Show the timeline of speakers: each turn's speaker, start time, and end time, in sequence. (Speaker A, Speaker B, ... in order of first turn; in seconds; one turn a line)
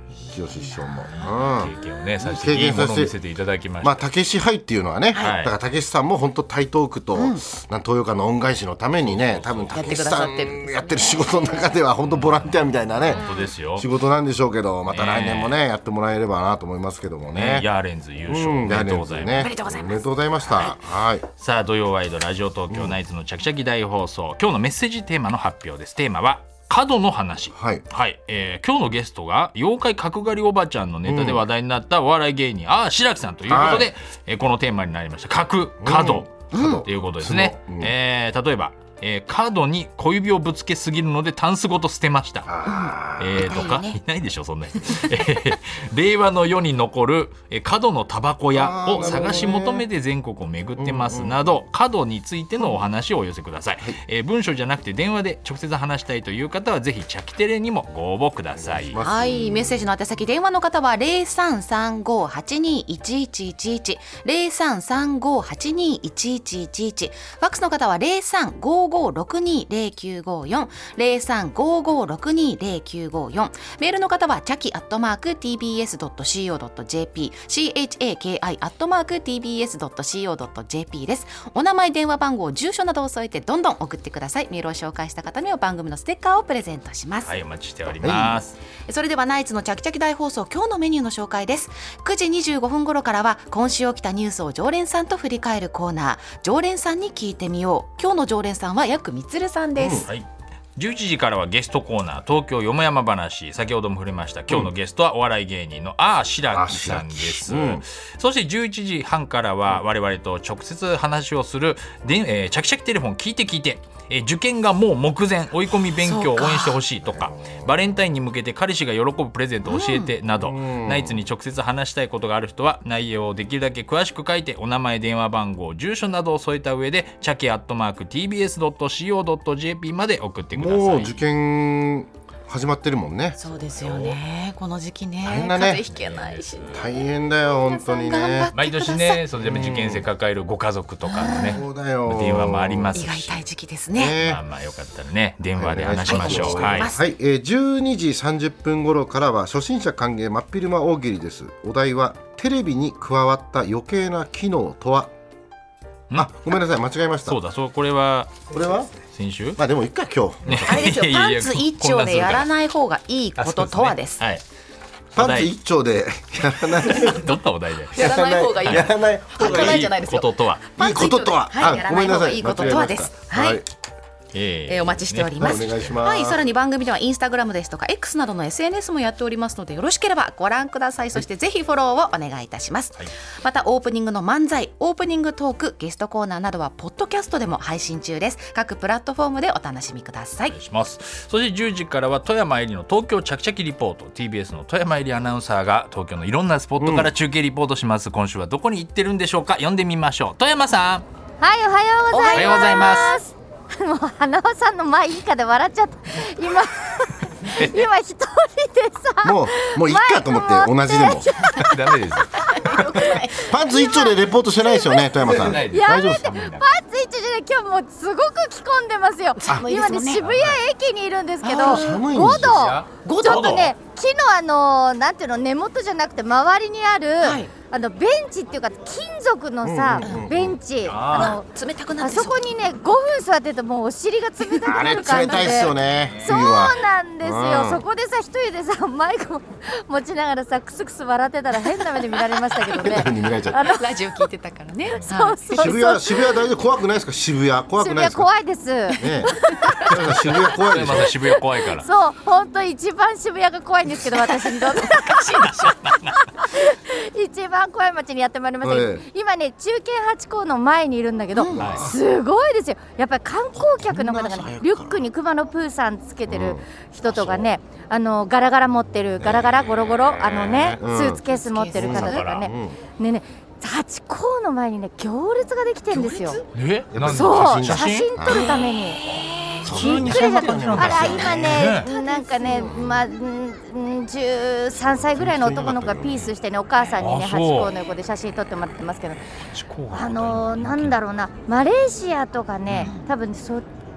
Speaker A: 0.2-1.4
Speaker B: 0.3-3.1
Speaker C: 1.4-4.0
Speaker B: 3.8-17.7
Speaker C: 5.2-5.5
Speaker A: 7.2-7.4
Speaker C: 9.0-10.1
Speaker A: 9.7-11.7
Speaker C: 12.1-13.9
Speaker A: 13.1-13.5
Speaker C: 14.9-15.6
Speaker C: 17.3-19.6
Speaker B: 18.3-21.3
Speaker A: 19.3-20.7
Speaker C: 21.4-42.5
Speaker B: 22.7-23.0
Speaker B: 27.5-27.9
Speaker B: 31.1-31.4
Speaker B: 33.5-33.9
Speaker B: 35.8-37.9
Speaker A: 36.5-36.9
Speaker B: 42.5-43.5
Speaker A: 42.6-44.0
Speaker C: 43.1-59.0
Speaker B: 48.5-49.9
Speaker B: 50.8-51.5
Speaker B: 58.6-59.9
Speaker A: 59.0-87.3
Speaker C: 87.3-88.6
Speaker B: 88.0-88.4
Speaker A: 88.9-100.1
Speaker B: 99.8-100.1
Speaker C: 100.0-131.2
Speaker B: 106.5-107.8
Speaker A: 115.9-116.8
Speaker B: 117.0-117.8
Speaker A: 119.7-120.1
Speaker B: 120.4-121.2
Speaker B: 130.6-133.4
Speaker A: 133.4-139.2
Speaker C: 133.5-134.2
Speaker B: 135.2-135.8
Speaker C: 135.8-136.8
Speaker B: 136.7-138.5
Speaker C: 138.5-143.4
Speaker B: 139.4-140.1
Speaker A: 141.1-141.6
Speaker B: 141.3-143.0
Speaker A: 142.9-144.2
Speaker B: 143.9-144.4
Speaker C: 144.2-146.9
Speaker B: 145.6-155.1
Speaker A: 146.1-147.1
Speaker B: 156.2-157.4
Speaker C: 157.3-158.5
Speaker B: 158.5-158.9
Speaker C: 159.0-159.6
Speaker B: 159.6-160.9
Speaker C: 160.5-162.5
Speaker A: 160.5-164.2
Speaker C: 163.4-164.4
Speaker C: 165.2-165.5
Speaker B: 165.2-167.4
Speaker C: 166.8-168.1
Speaker A: 167.9-173.6
Speaker B: 167.9-169.9
Speaker C: 168.6-170.6
Speaker B: 170.8-173.7
Speaker C: 174.3-175.8
Speaker A: 174.7-190.6
Speaker B: 175.4-176.4
Speaker C: 190.5-201.1
Speaker B: 196.8-197.1
Speaker D: 201.4-211.8
Speaker A: 202.1-203.1
Speaker C: 202.3-203.2
Speaker C: 207.5-207.9
Speaker B: 209.2-211.3
Speaker C: 211.6-212.5
Speaker A: 212.4-213.5
Speaker D: 212.6-231.5
Speaker B: 213.4-216.3
Speaker C: 215.2-216.7
Speaker A: 219.4-220.2
Speaker C: 220.2-220.6
Speaker A: 221.4-222.1
Speaker B: 221.6-222.8
Speaker C: 222.3-223.7
Speaker A: 223.0-223.7
Speaker A: 227.2-227.5
Speaker B: 229.6-230.6
Speaker C: 230.8-231.4
Speaker A: 231.1-232.5
Speaker D: 232.0-244.2
Speaker A: 234.5-235.7
Speaker B: 234.7-237.8
Speaker C: 235.9-236.4
Speaker A: 242.3-243.1
Speaker B: 242.8-243.6
Speaker A: 243.6-245.8
Speaker C: 244.9-245.1
Speaker D: 245.1-246.4
Speaker B: 245.6-248.3
Speaker D: 247.8-250.0
Speaker B: 248.9-251.1
Speaker A: 249.0-249.9
Speaker C: 250.4-251.9
Speaker D: 251.8-255.5
Speaker A: 254.0-255.9
Speaker C: 255.3-256.2
Speaker D: 256.3-276.4
Speaker B: 258.6-259.1
Speaker A: 261.4-261.9
Speaker B: 261.5-262.0
Speaker C: 261.6-261.9
Speaker B: 263.6-265.1
Speaker B: 266.3-267.5
Speaker B: 269.2-271.2
Speaker A: 271.3-272.2
Speaker B: 271.8-272.8
Speaker C: 271.9-272.5
Speaker A: 275.9-276.5
Speaker C: 276.5-278.1
Speaker B: 276.9-278.7
Speaker D: 277.0-279.0
Speaker A: 278.3-279.7
Speaker B: 279.6-281.8
Speaker C: 279.6-281.9
Speaker D: 279.7-289.2
Speaker A: 281.0-282.7
Speaker B: 282.5-283.1
Speaker B: 285.1-286.3
Speaker C: 287.0-287.7
Speaker C: 289.5-291.0
Speaker D: 289.9-293.6
Speaker A: 292.7-293.1